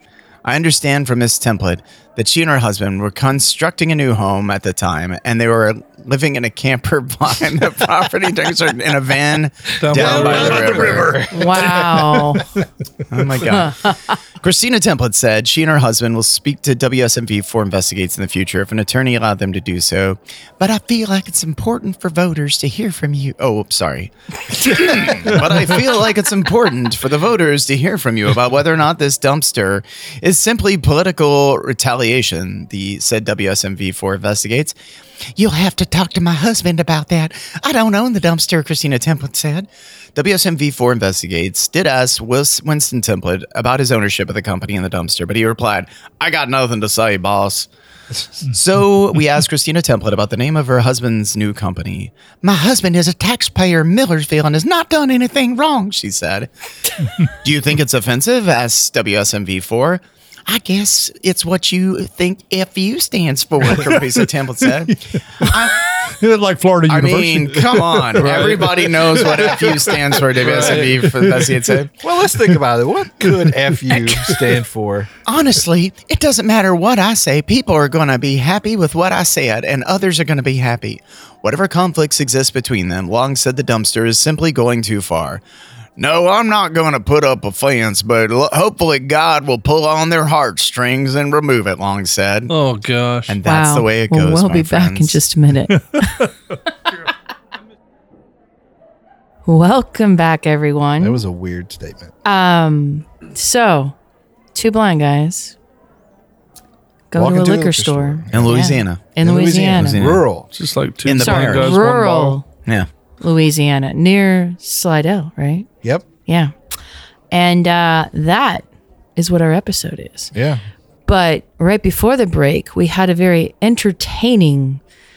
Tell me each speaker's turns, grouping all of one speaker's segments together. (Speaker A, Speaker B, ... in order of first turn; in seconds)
Speaker A: 0.4-11.3, 13.1-34.7, 35.4-47.7, 48.5-56.5, 57.3-65.9, 66.9-71.9, 75.2-85.4, 86.0-92.5, 93.3-95.2, 108.3-109.1, 109.7-110.2, 111.0-111.8
Speaker B: 9.8-11.0, 68.2-68.8, 70.4-71.0, 92.5-93.4, 110.5-112.4
Speaker C: 9.9-12.4, 64.9-70.2, 71.0-71.6, 73.5-74.4, 95.9-96.3
Speaker D: 11.3-12.4, 13.4-14.2, 93.5-96.3, 99.4-101.2, 102.2-103.9, 104.5-105.6, 107.1-110.1, 111.2-112.5, 113.2-115.7, 116.2-116.5, 117.3-120.3, 121.1-124.8
Speaker E: 72.0-75.1, 101.0-102.1, 107.1-110.5, 120.3-120.6